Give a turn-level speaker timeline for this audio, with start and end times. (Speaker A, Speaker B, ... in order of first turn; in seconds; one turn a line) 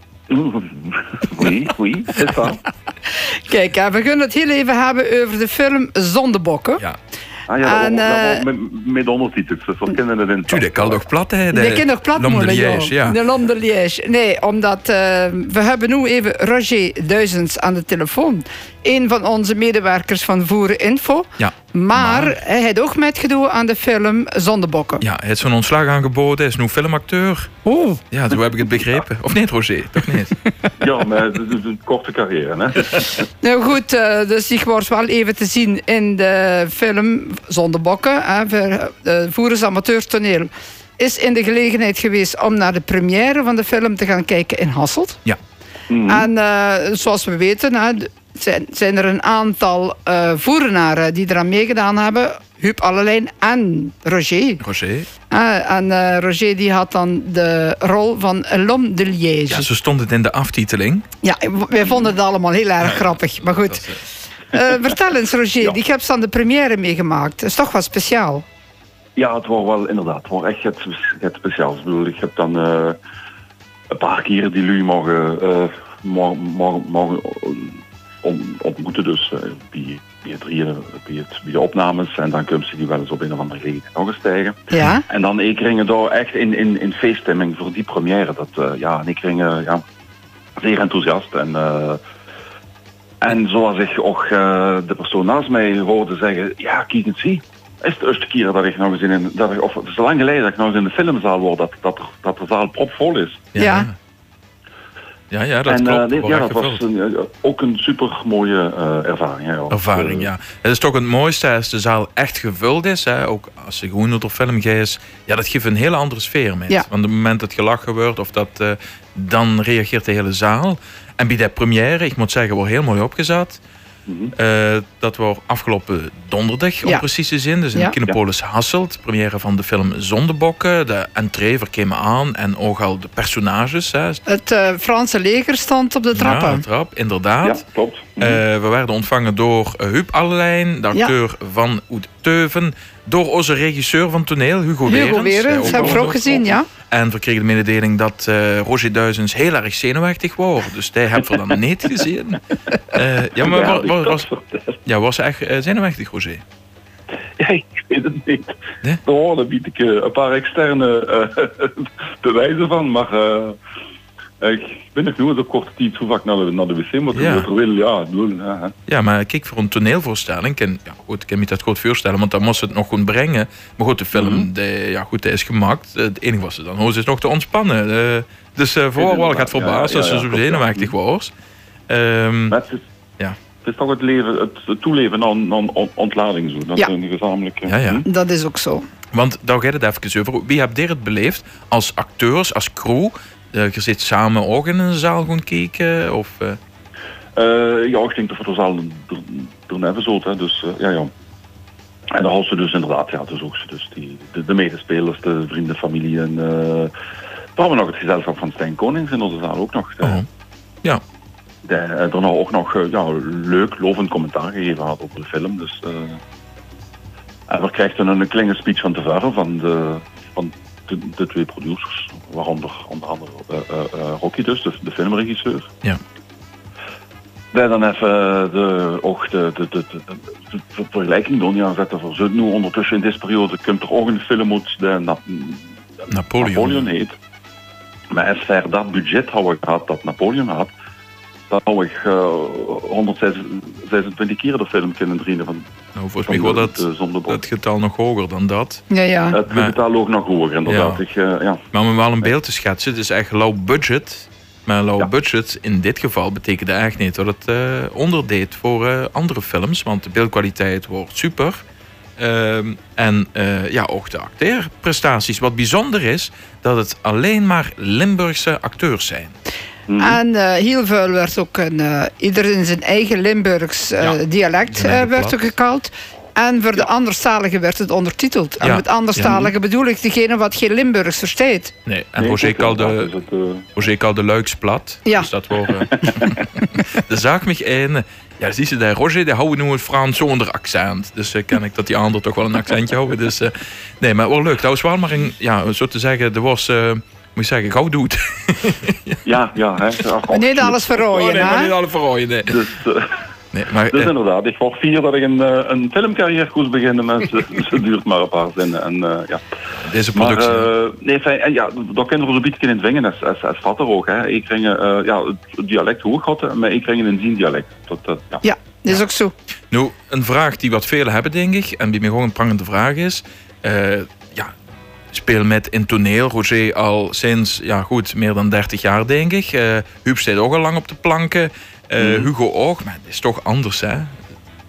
Speaker A: 0.3-2.6
Speaker B: 3.1-6.8
Speaker A: 7.5-11.0
Speaker B: 7.6-8.4
Speaker C: 10.5-13.2
Speaker B: 11.5-25.0
Speaker C: 21.4-22.3
Speaker C: 25.0-27.6
Speaker B: 27.6-28.0
Speaker C: 28.1-30.4
Speaker A: 30.8-33.1
Speaker B: 33.4-45.2
Speaker A: 45.9-46.3
Speaker B: 46.1-54.6
Speaker C: 54.6-55.1
Speaker B: 55.3-59.7
Speaker C: 59.5-61.1
Speaker B: 61.2-63.9
Speaker C: 62.8-64.0
Speaker B: 64.5-68.4
Speaker A: 69.2-73.0
Speaker A: 73.9-89.8
Speaker B: 84.7-85.0
Speaker A: 90.6-92.0
Speaker A: 93.2-103.5
Speaker C: 103.5-103.9
Speaker B: 103.5-103.9
Speaker C: 105.3-106.8
Speaker A: 105.7-110.3
Speaker C: 109.7-123.6
Speaker A: 124.0-124.3
Speaker C: 124.3-134.2
Speaker B: 134.2-136.6
Speaker C: 136.1-137.6
Speaker A: 137.4-138.4
Speaker C: 138.2-154.2
Speaker B: 144.8-146.7
Speaker A: 145.6-146.0
Speaker A: 152.7-154.8
Speaker C: 154.8-156.4
Speaker A: 157.4-163.6
Speaker A: 164.4-168.7
Speaker C: 167.1-167.5
Speaker C: 168.9-181.3
Speaker A: 174.1-174.5
Speaker A: 178.9-180.9
Speaker C: 181.9-182.6
Speaker A: 182.5-182.8
Speaker A: 183.6-188.1
Speaker C: 187.7-188.0
Speaker B: 188.0-188.8
Speaker C: 189.1-196.6
Speaker A: 197.3-201.1
Speaker A: 202.1-206.9
Speaker A: 207.6-210.2
Speaker A: 211.6-216.2
Speaker A: 217.5-225.7
Speaker A: 227.5-235.7
Speaker C: 236.1-236.9
Speaker A: 236.4-237.1
Speaker A: 238.1-240.7
Speaker A: 241.5-245.7
Speaker C: 245.9-248.8
Speaker A: 246.2-247.4
Speaker B: 248.9-249.4
Speaker A: 249.3-251.6
Speaker C: 249.5-249.8
Speaker C: 250.7-251.0
Speaker C: 251.7-261.6
Speaker C: 262.2-269.4
Speaker A: 269.9-270.2
Speaker B: 270.0-281.7
Speaker C: 274.0-275.5
Speaker C: 278.6-279.4
Speaker C: 281.9-283.1
Speaker A: 282.2-283.7
Speaker C: 283.8-299.2
Speaker A: 285.8-286.3
Speaker A: 299.2-301.4
Speaker B: 300.3-301.7
Speaker C: 301.1-302.6
Speaker A: 302.4-303.2
Speaker C: 303.5-304.1
Speaker A: 303.9-309.4
Speaker C: 309.8-310.7
Speaker A: 310.1-318.4
Speaker B: 318.4-319.3
Speaker C: 319.7-324.5
Speaker C: 325.1-334.1
Speaker A: 332.0-332.3